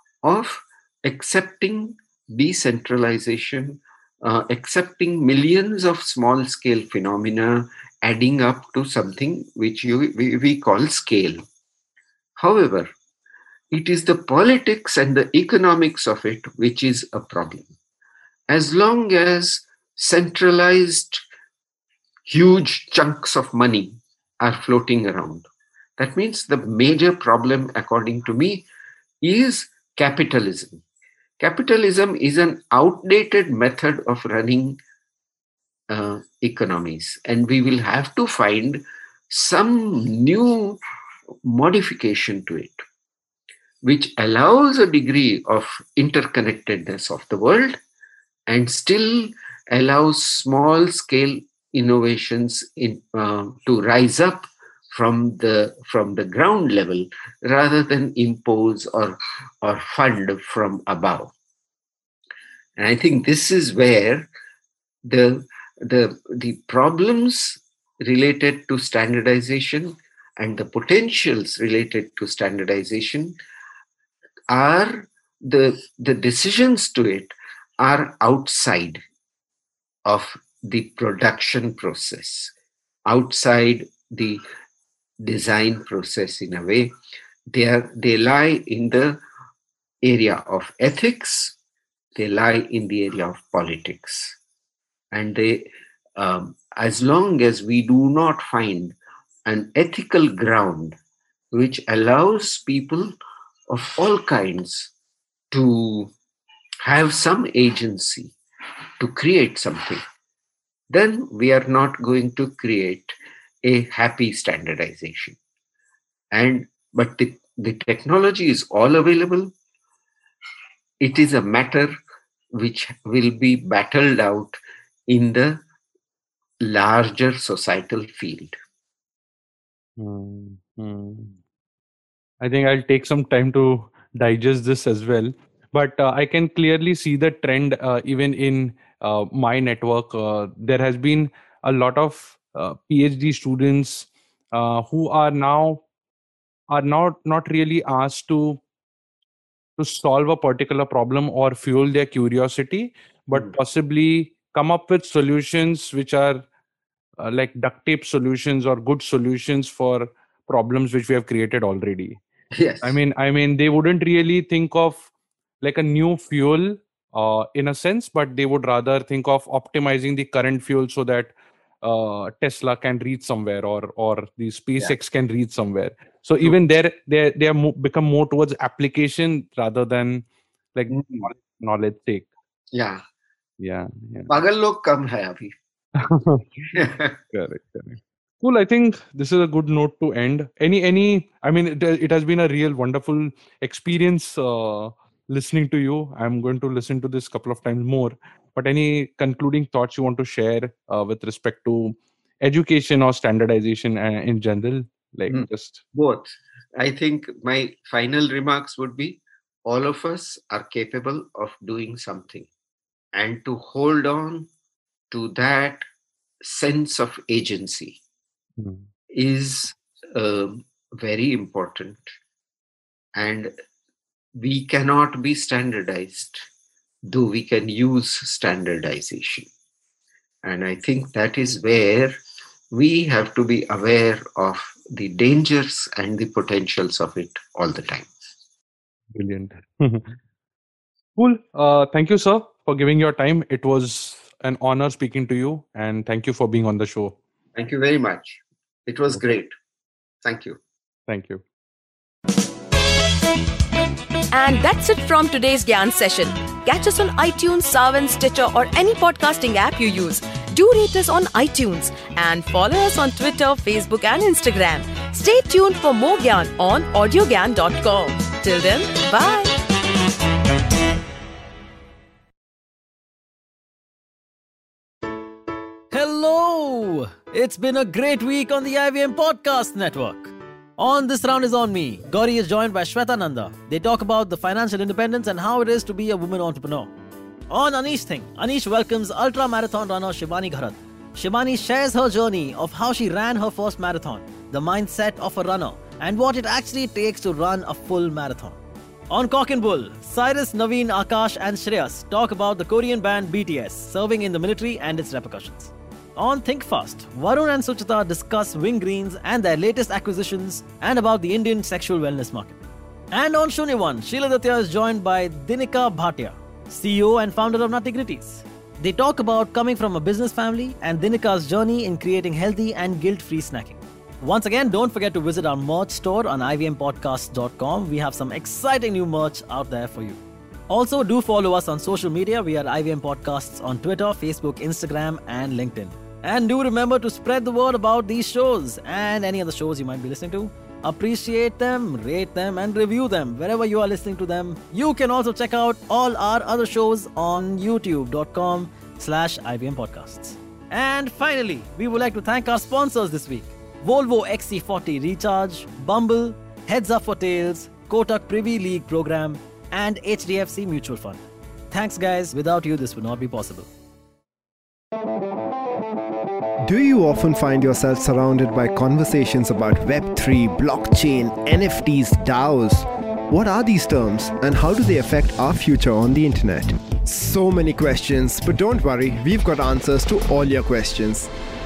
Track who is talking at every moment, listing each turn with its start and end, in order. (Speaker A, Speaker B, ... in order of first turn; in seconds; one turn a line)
Speaker A: 0.2-11.4
Speaker A: 12.4-12.9
Speaker A: 13.7-17.7
Speaker A: 18.5-21.2
Speaker A: 22.3-25.4
Speaker A: 26.0-28.6
Speaker A: 29.2-30.8
Speaker A: 31.4-34.8
Speaker A: 35.9-40.8
Speaker A: 41.4-42.8
Speaker A: 43.8-47.8
Speaker A: 48.5-61.3
Speaker A: 62.8-64.3
Speaker A: 65.0-73.4
Speaker A: 74.5-79.0
Speaker A: 80.0-82.5
Speaker A: 83.0-84.4
Speaker A: 85.2-86.9
Speaker A: 87.5-89.2
Speaker A: 90.0-91.5
Speaker A: 92.1-94.4
Speaker A: 95.1-95.7
Speaker A: 96.2-101.0
Speaker A: 101.5-103.1
Speaker A: 103.7-104.9
Speaker A: 105.5-106.1
Speaker A: 106.8-108.3
Speaker A: 109.0-110.0
Speaker A: 110.9-115.4
Speaker A: 116.3-119.5
Speaker A: 121.0-122.0
Speaker A: 122.5-125.6
Speaker A: 126.6-128.6
Speaker B: 130.0-131.4
Speaker B: 132.4-145.8
Speaker B: 146.7-148.6
Speaker B: 149.8-156.4
Speaker B: 157.2-162.2
Speaker A: 162.5-163.0
Speaker B: 162.8-165.1
Speaker B: 165.6-182.3
Speaker A: 180.9-181.3
Speaker A: 182.7-183.0
Speaker B: 183.6-184.3
Speaker A: 184.3-185.5
Speaker B: 186.0-186.4
Speaker A: 186.7-187.2
Speaker B: 187.3-205.8
Speaker A: 205.3-212.5
Speaker A: 213.1-214.5
Speaker A: 215.1-215.8
Speaker A: 216.4-218.0
Speaker B: 218.6-218.8
Speaker A: 219.1-222.1
Speaker A: 223.2-223.5
Speaker A: 224.3-226.4
Speaker A: 227.0-229.5
Speaker A: 230.4-232.2
Speaker A: 232.7-238.1
Speaker B: 239.1-240.2
Speaker B: 241.2-247.2
Speaker A: 247.6-249.5
Speaker A: 250.2-250.6
Speaker B: 251.1-251.4
Speaker C: 254.3-269.6
Speaker D: 275.9-286.9
Speaker D: 287.5-298.6
Speaker D: 299.1-363.7
Speaker E: 366.6-381.3